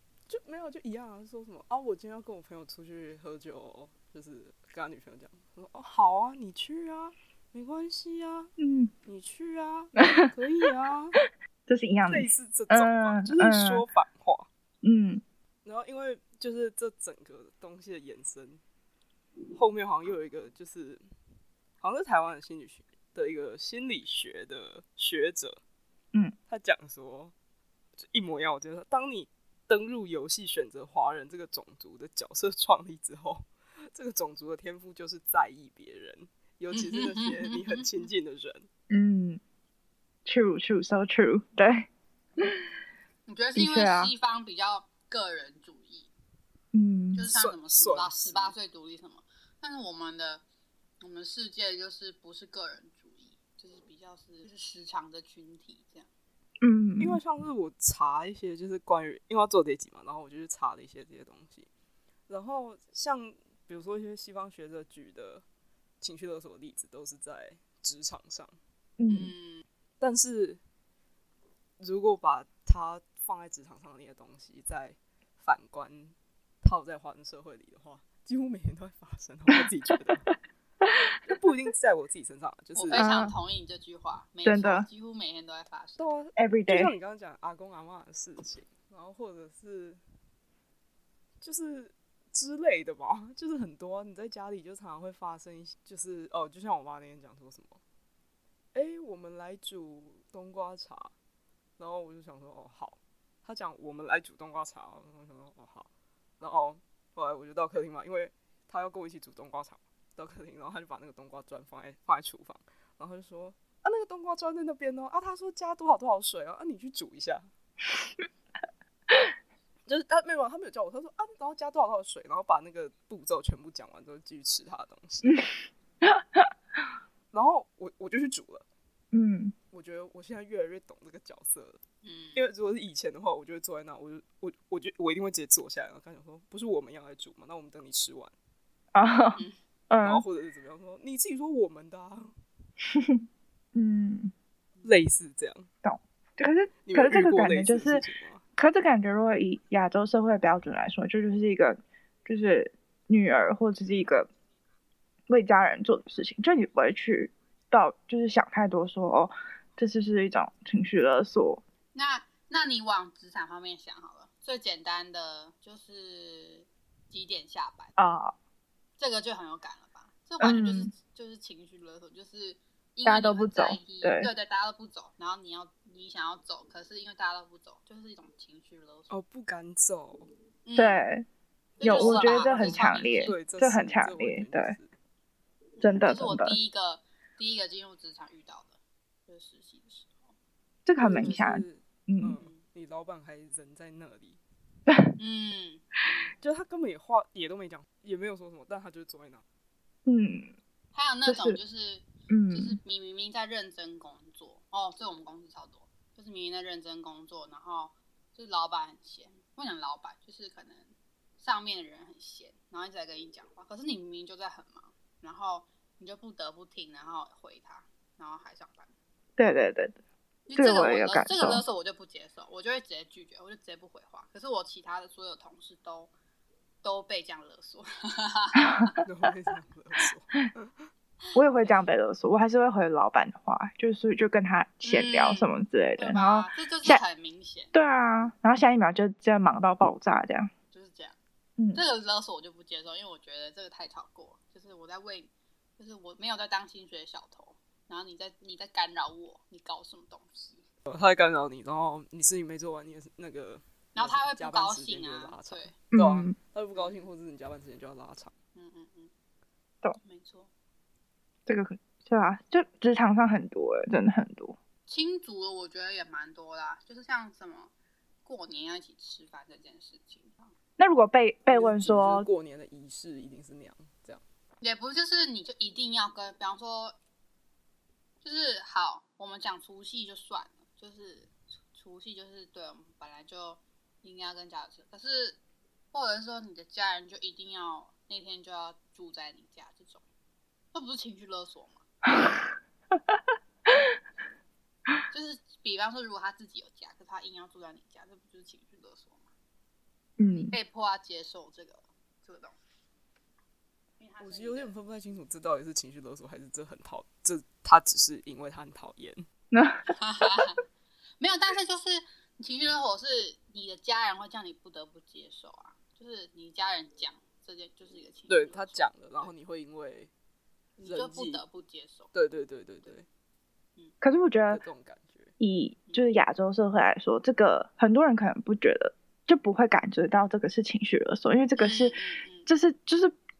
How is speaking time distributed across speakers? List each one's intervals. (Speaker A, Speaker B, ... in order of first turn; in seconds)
Speaker A: 0.3-8.5, 9.0-11.2, 12.1-14.5, 15.6-18.6, 19.5-21.0, 21.8-25.6, 26.5-27.3, 28.0-38.7, 47.3-48.5, 57.0-61.7, 62.3-65.4, 66.0-68.5, 70.0-70.6, 71.8-80.3, 81.2-83.1, 86.0-90.0, 91.4-97.8, 98.7-101.1, 101.8-105.9, 106.4-117.5, 119.8-125.4, 127.3-128.7, 129.7-131.8, 132.3-138.3, 140.0-142.4, 144.8-145.7, 146.8-148.4, 179.1-180.3, 181.8-184.9, 191.0-194.4, 196.4-199.4, 229.0-230.9, 250.9-258.3, 271.5-274.2, 304.2-309.2, 318.3-320.1, 320.8-321.4, 322.1-323.1, 324.5-325.3
Speaker B: 8.6-8.9, 11.7-13.8, 14.8-15.2, 38.9-39.4, 40.2-41.9, 43.5-44.1, 46.7-47.2, 56.6-57.2, 69.0-69.3, 82.9-83.3, 84.4-84.9, 86.4-86.9, 126.0-126.5, 129.1-129.5, 138.9-140.2, 143.7-144.3, 145.8-148.0, 148.6-154.3, 155.3-161.6, 168.0-168.3, 170.4-170.9, 173.0-174.3, 180.8-181.2, 181.8-184.8, 185.8-186.6, 190.8-192.4, 200.1-200.5, 201.2-201.6, 202.3-202.8, 219.4-220.0, 220.5-221.6, 231.3-237.0, 237.7-240.5, 255.9-256.3, 261.4-264.6, 270.8-272.3, 292.1-293.2, 300.2-300.5, 309.5-310.4, 324.0-324.6, 325.4-331.9, 332.5-333.1
Speaker C: 36.7-37.9, 43.2-46.1, 47.1-50.4, 51.0-56.1, 69.1-69.6, 82.8-86.1, 132.0-132.4, 161.9-167.9, 169.0-179.1, 180.6-181.0, 181.8-183.4, 185.8-190.3, 191.2-191.4, 195.2-196.3, 200.9-218.9, 220.5-226.1, 226.8-229.0, 234.8-237.7, 240.7-241.2, 241.7-250.6, 253.9-255.8, 256.7-257.1, 258.5-259.1, 260.0-260.5, 264.9-267.7, 268.2-270.5, 274.6-276.9, 278.2-285.4, 285.9-290.0, 290.7-291.8, 295.1-299.3, 300.3-302.6, 304.0-304.7, 309.9-310.6, 311.2-319.3, 320.8-322.1, 331.6-332.5